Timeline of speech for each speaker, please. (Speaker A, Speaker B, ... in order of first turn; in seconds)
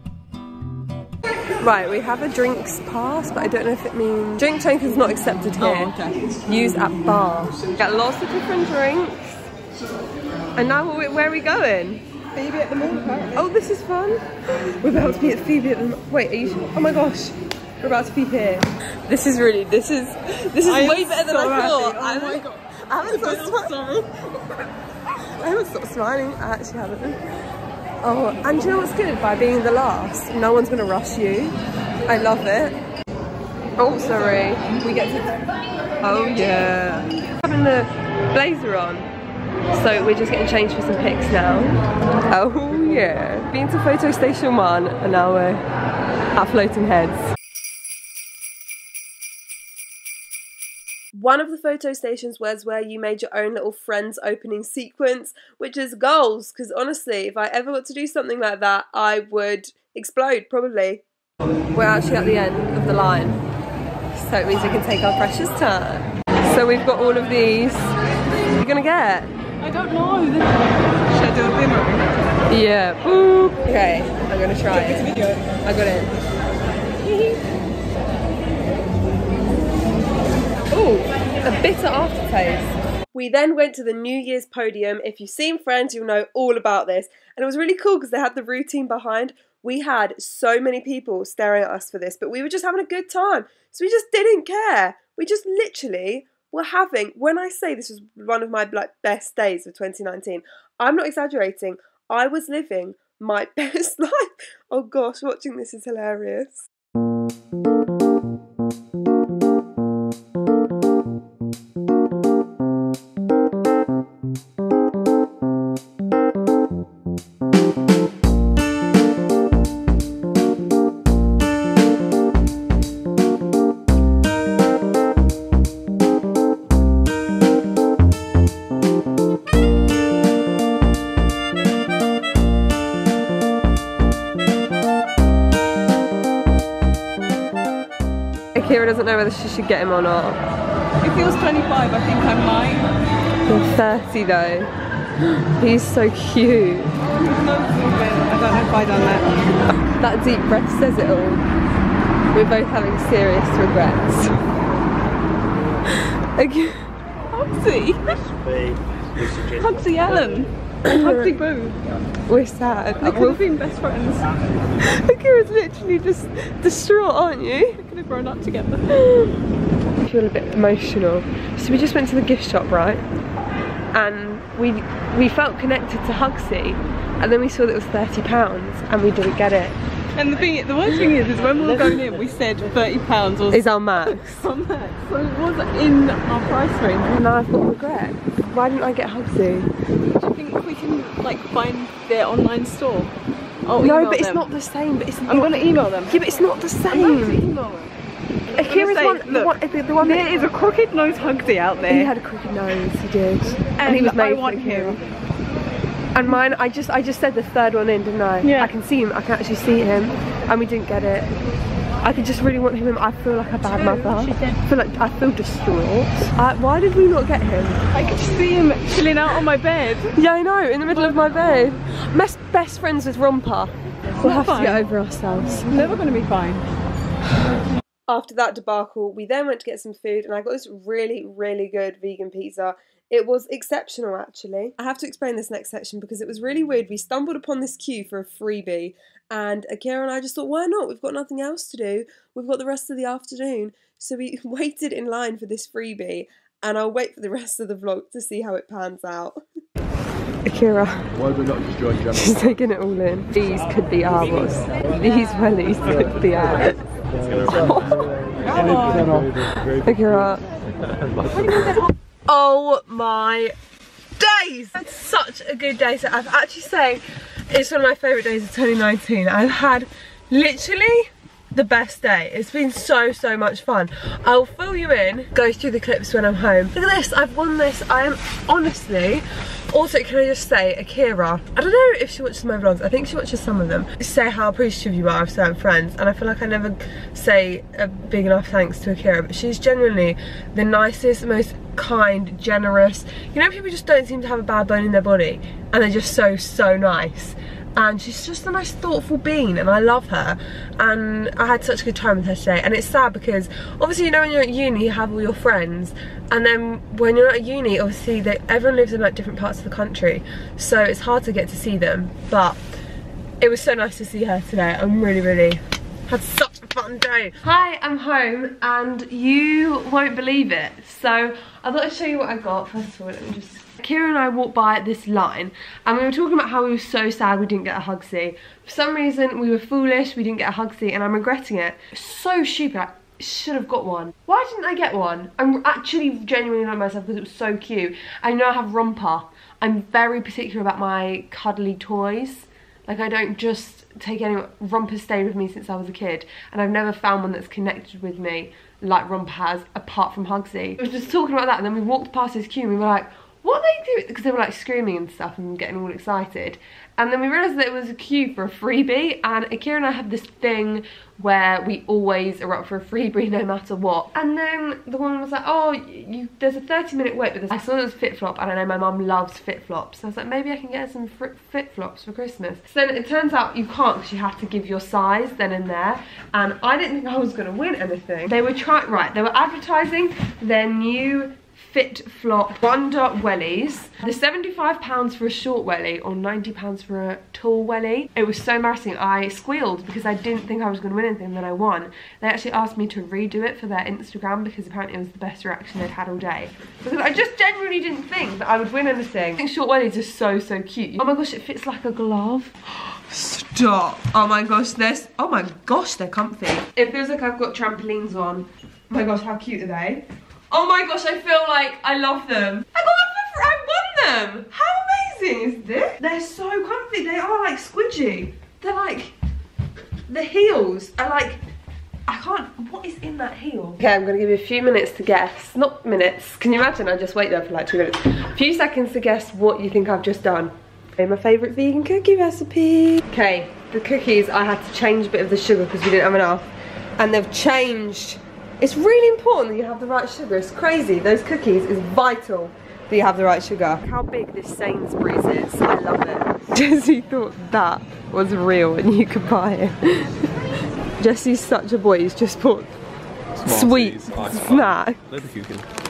Speaker A: 1.6-9.4, 10.6-12.0, 13.3-14.2, 14.8-24.0, 25.4-27.2, 28.0-31.6, 32.1-32.8, 33.8-35.0, 36.0-39.1, 39.7-45.6, 46.4-47.3, 51.1-61.0, 61.7-63.4, 64.1-67.9, 68.5-69.3, 72.5-75.1, 75.6-76.1, 80.7-106.7, 138.5-140.4, 143.4-146.9, 150.0-151.4, 152.3-154.4, 156.3-156.8, 162.3-163.4, 164.8-167.8, 168.9-169.4, 170.0-173.0, 173.9-179.8, 183.5-184.5, 187.1-189.7, 193.8-197.4, 198.6-200.3, 201.9-205.0, 206.1-211.3, 212.0-217.8, 220.1-225.7, 228.1-249.4, 250.4-251.1, 252.0-256.8, 257.5-258.1, 259.7-260.4, 261.7-263.6, 264.2-312.6, 313.4-419.1, 420.1-421.4, 422.1-450.3, 451.0-452.7, 453.4-455.1
Speaker B: 5.6-6.2, 12.3-13.4, 20.6-24.1, 34.8-35.2, 69.6-72.2, 74.7-75.4, 77.0-77.4, 141.0-142.9, 147.1-149.4, 157.3-158.3, 159.2-161.8, 163.0-164.3, 167.8-168.9, 180.2-187.2, 190.1-193.1, 193.7-194.5, 195.3-196.2, 196.9-197.9, 198.5-202.1, 203.8-205.1, 208.4-208.7, 217.9-220.1, 224.2-224.8, 225.6-226.7, 258.5-259.2, 261.4-261.8
Speaker C: 251.2-252.1, 453.4-455.7